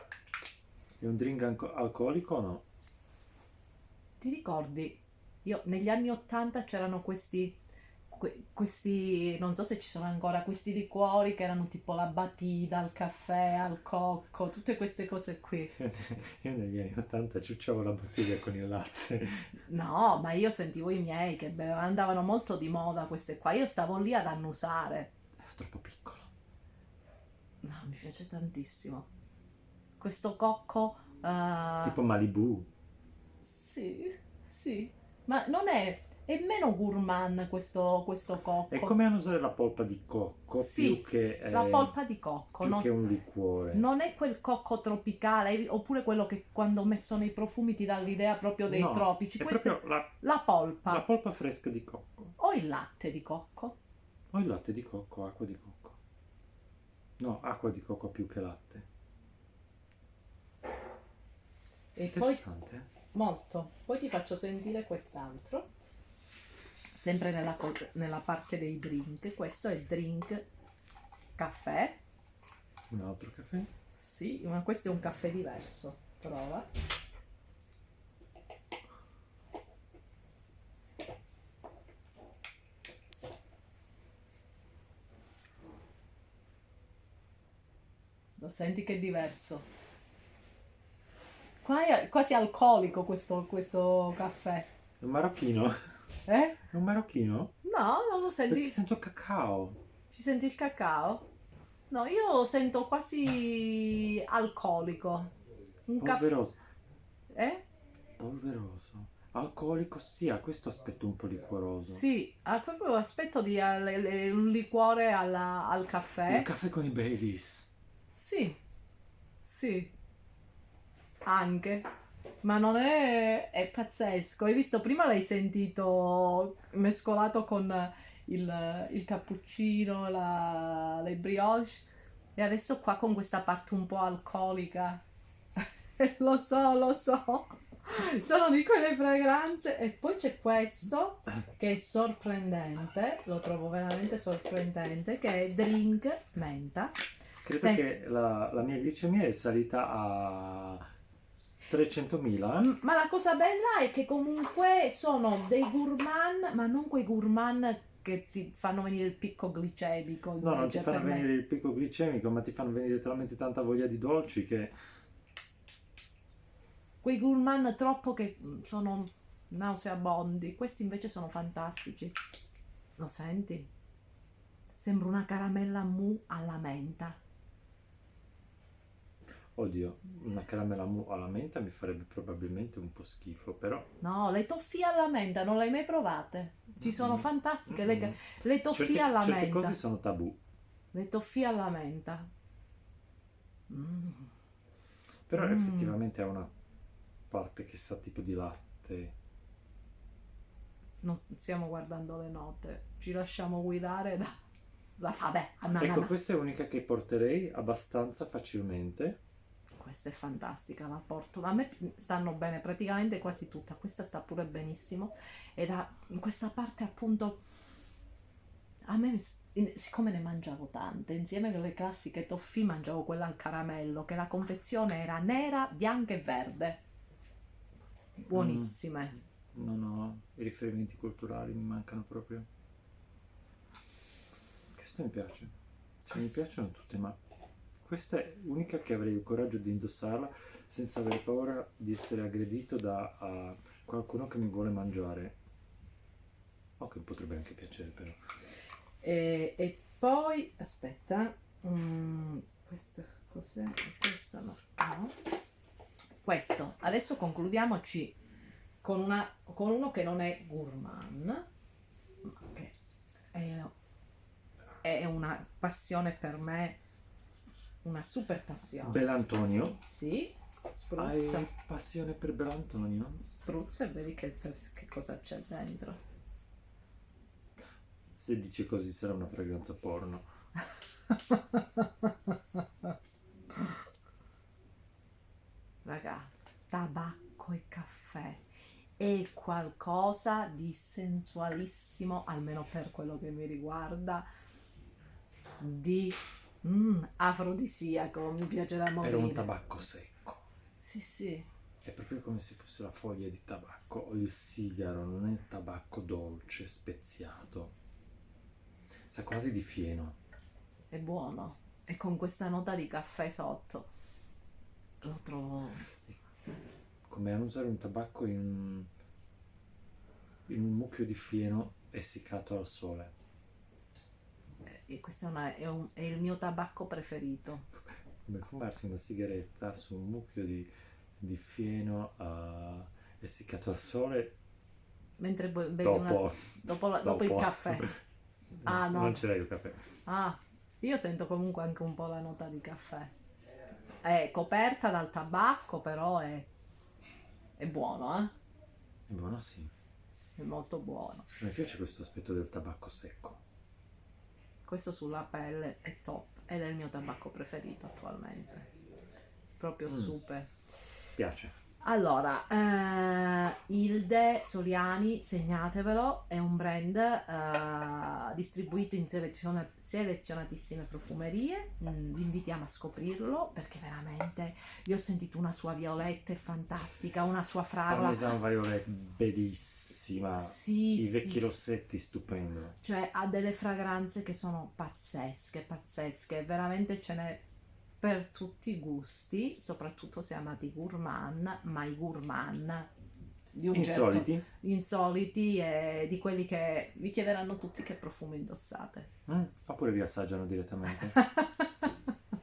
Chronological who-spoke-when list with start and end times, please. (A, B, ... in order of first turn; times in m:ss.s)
0:01.0-0:02.6 A
0:04.2-0:07.6 B
0:08.1-0:15.7 B
0:15.8-0:19.5 A
0:19.6-0:25.1 B
0:25.4-0:26.3 A
0:27.6-0:29.1 B
0:30.0-0:32.0 B
0:31.8-0:32.7 A
0:33.4-0:39.0 B
0:38.7-0:42.0 A
0:40.6-0:42.9 B
0:42.6-0:43.8 A
0:43.7-0:51.0 B
0:48.7-0:50.1 A
0:50.9-0:52.3 A
0:52.4-0:53.8 B
0:54.3-0:56.0 A
0:57.2-0:58.9 A
1:02.0-1:02.4 B
1:02.1-1:02.9 A
1:03.1-1:05.7 B
1:07.0-1:10.5 B
1:11.4-1:12.0 B
1:12.9-1:13.7 A
1:14.0-1:16.7 B
1:28.4-1:29.7 B
1:31.6-1:34.7 B
1:35.0-1:35.8 A
1:36.3-1:36.6 B
1:36.7-1:37.5 A
1:37.6-1:38.8 B
1:38.5-1:39.8 A
1:40.1-1:41.3 B
1:41.9-1:45.3 B
1:45.9-1:46.3 B
1:46.0-1:46.6 A
1:47.3-1:47.6 B
1:48.2-1:52.0 A
1:51.9-1:56.5 B
1:56.3-1:57.7 A
1:58.1-1:58.6 B
1:59.4-1:59.9 B
2:01.2-2:01.9 B
2:02.4-2:15.0 B
2:16.0-2:27.0 B
2:27.4-2:30.8 A
2:27.5-2:27.8 B
2:31.7-2:32.7 A
2:32.6-2:41.3 B
2:40.4-2:44.7 A
2:47.0-2:52.2 B
2:53.0-2:53.7 B
2:54.8-2:57.2 B
2:59.6-3:03.9 A
3:04.0-3:09.8 B
3:06.8-3:10.4 A
3:10.9-3:12.3 B
3:13.7-3:14.3 B
3:15.3-3:16.5 A
3:15.3-3:16.0 B
3:17.3-3:19.1 A
3:21.0-3:24.4 B
3:25.0-3:26.1 B
3:25.7-3:29.2 A
3:29.8-3:37.4 B
3:38.9-3:46.8 B
3:48.2-3:49.2 B
3:48.3-3:48.8 A
3:49.5-3:52.5 A
3:54.7-3:55.5 A
3:56.0-3:57.2 A
3:57.8-4:05.4 A
4:06.8-4:08.2 A
4:09.0-4:15.2 B
4:16.2-4:18.2 B
4:18.8-4:21.5 B
4:22.2-4:22.7 B
4:23.3-4:23.7 B
4:24.8-4:26.8 B
4:27.8-4:29.0 B
4:28.8-4:29.8 A
4:29.8-4:31.5 B
4:31.0-4:33.2 A
4:33.2-4:36.0 B
4:38.2-4:40.3 A
4:41.1-4:42.9 B
4:45.8-4:48.4 B
4:49.0-4:54.3 B
4:55.6-4:59.5 B
4:59.0-5:00.4 A
5:00.8-5:01.5 B
5:01.8-5:07.8 A
5:09.1-5:10.2 A
5:10.9-5:13.9 B
5:15.0-5:15.9 B
5:17.1-5:18.9 A
5:20.5-5:23.1 A
5:24.7-5:27.7 B
5:28.3-5:34.3 A
5:35.2-5:37.9 B
5:35.8-5:37.9 A
5:38.6-5:39.8 A
5:38.6-5:39.3 B
5:40.1-5:43.1 B
5:44.0-5:46.5 B
5:47.6-5:48.3 B
5:49.1-5:49.7 A
5:50.4-5:51.3 B
5:51.4-5:53.4 A
5:54.6-5:58.7 B
5:59.6-6:00.5 B
5:59.9-6:00.2 A
6:01.2-6:01.5 A
6:01.8-6:18.4 B
6:17.9-6:22.8 A
6:20.4-6:21.4 B
6:22.8-6:27.4 B
6:28.0-6:32.9 B
6:33.5-6:39.1 B
6:33.7-6:34.4 A
6:39.3-6:41.2 A
6:41.0-6:42.1 B